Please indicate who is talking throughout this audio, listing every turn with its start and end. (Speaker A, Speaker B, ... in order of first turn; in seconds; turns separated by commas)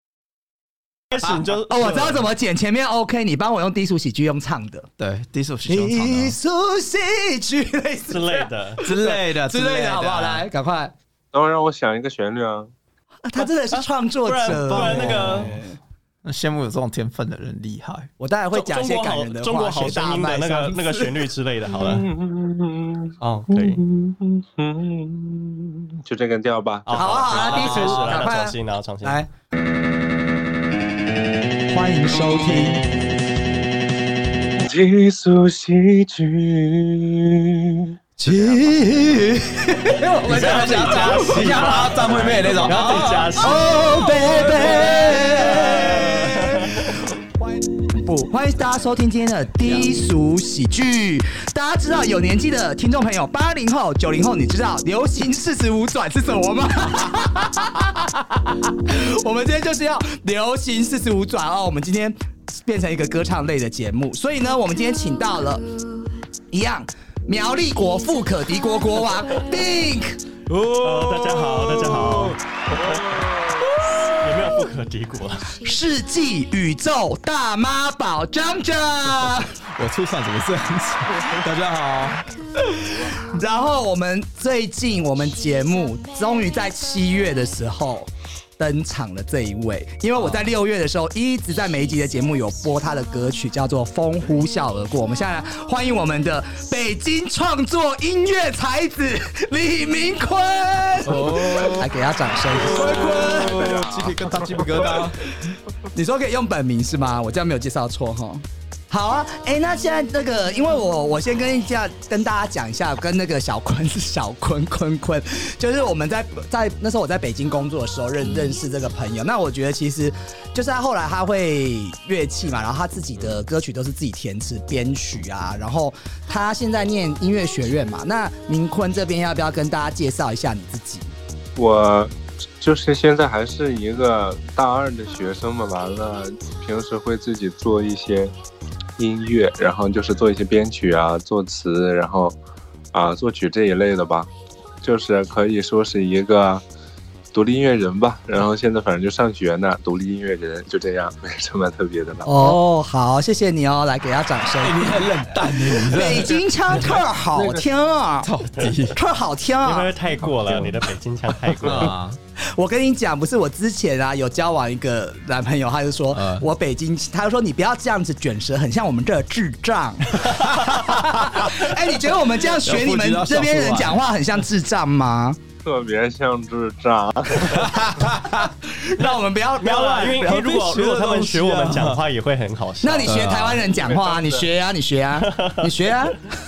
Speaker A: 1.1-2.2, Speaker B: 1.7-4.9, Speaker C: 5.0-6.4, Speaker B: 5.7-10.9, Speaker A: 8.1-8.8, Speaker C: 8.8-10.5, Speaker D: 11.3-12.7, Speaker B: 13.2-15.8, Speaker A: 13.4-15.5, Speaker C: 14.5-15.6, Speaker C: 16.2-18.1, Speaker B: 18.2-21.2, Speaker A: 18.5-22.1, Speaker D: 21.7-27.1, Speaker A: 23.2-23.8, Speaker A: 26.9-29.2, Speaker B: 26.9-29.3, Speaker C: 27.3-28.3, Speaker B: 31.7-32.8, Speaker D: 34.6-38.6, Speaker B: 38.2-41.7, Speaker A: 40.3-43.8, Speaker C: 40.3-46.5, Speaker B: 43.4-65.7, Speaker A: 44.8-46.6, Speaker C: 49.6-49.9, Speaker B: 66.5-70.2, Speaker C: 70.5-74.2, Speaker A: 70.8-73.3, Speaker A: 74.1-75.5, Speaker B: 75.6-79.5, Speaker C: 79.0-82.2, Speaker B: 83.3-103.7, Speaker C: 90.2-90.5, Speaker C: 101.0-101.9, Speaker C: 102.5-105.2, Speaker D: 102.7-104.9, Speaker B: 105.9-131.1, Speaker D: 131.6-138.3, Speaker D: 139.0-142.4, Speaker D: 142.9-144.3, Speaker D: 144.8-146.6, Speaker D: 147.3-152.6, Speaker B: 152.3-155.0, Speaker C: 154.6-156.4, Speaker B: 155.5-158.3, Speaker D: 156.7-157.7, Speaker C: 158.2-159.0, Speaker B: 158.9-159.9, Speaker A: 159.6-162.0, Speaker D: 160.2-160.7, Speaker C: 161.5-162.2, Speaker B: 162.5-175.4, Speaker C: 166.1-166.5, Speaker C: 170.8-171.4, Speaker C: 172.5-174.0, Speaker D: 175.6-177.7, Speaker C: 177.5-178.5, Speaker B: 178.6-180.4, Speaker A: 179.0-183.2, Speaker C: 180.2-182.0, Speaker B: 182.8-186.3, Speaker C: 183.0-183.7, Speaker D: 183.7-184.5, Speaker A: 185.3-185.7